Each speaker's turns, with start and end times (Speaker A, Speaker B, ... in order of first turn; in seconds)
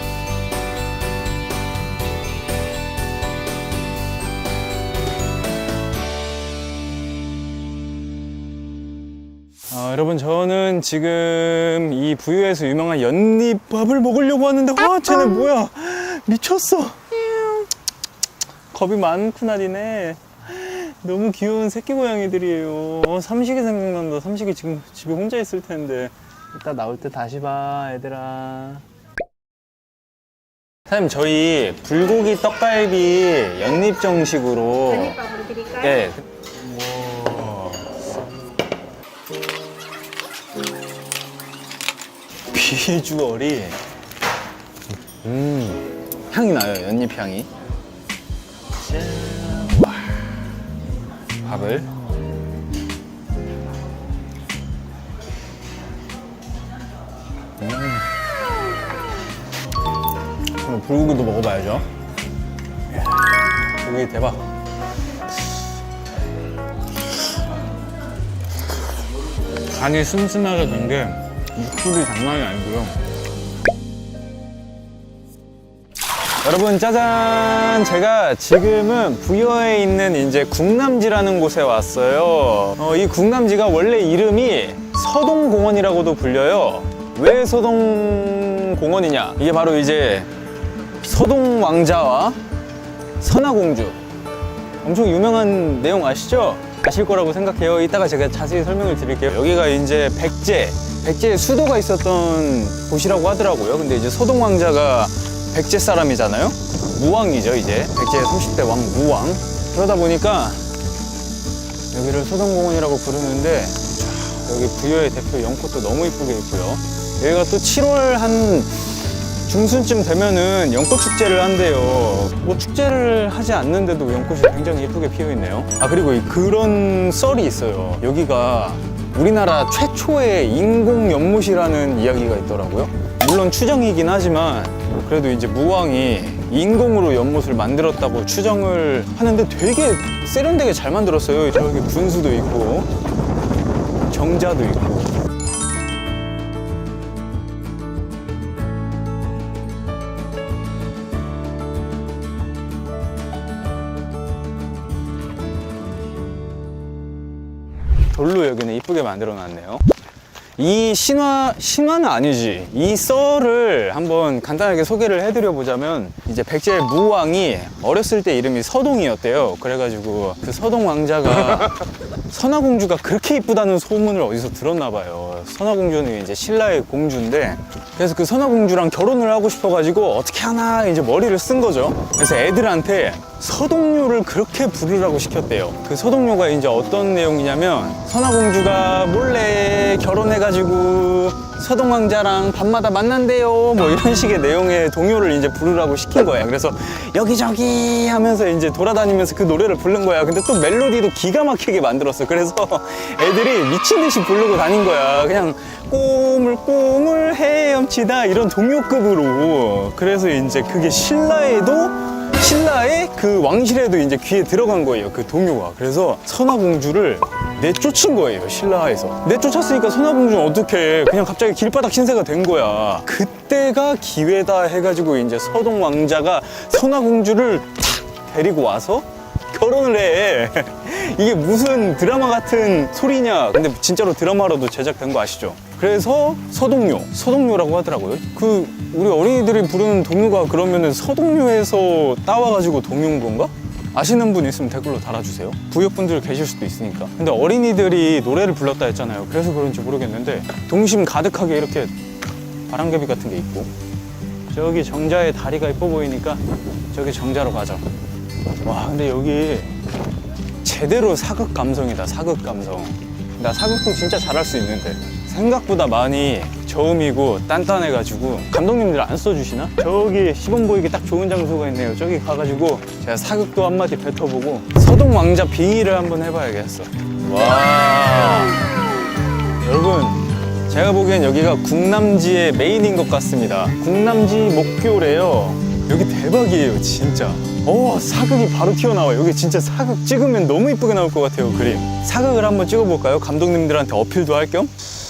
Speaker A: 9.7-17.7, 18.7-28.8, 30.9-38.0, 42.5-43.8, 45.1-47.5, 48.7-50.3, 51.4-51.9, 57.6-58.0, 60.6-61.9, 62.9-64.5, 69.7-73.0, 76.4-90.3, 91.0-92.4, 93.2-94.0, 94.8-110.7, 111.9-142.9, 144.1-145.1, 158.1-159.8, 160.6-251.9, 252.7-253.7, 254.5-257.9, 258.6-259.8, 260.6-278.8, 279.6-294.7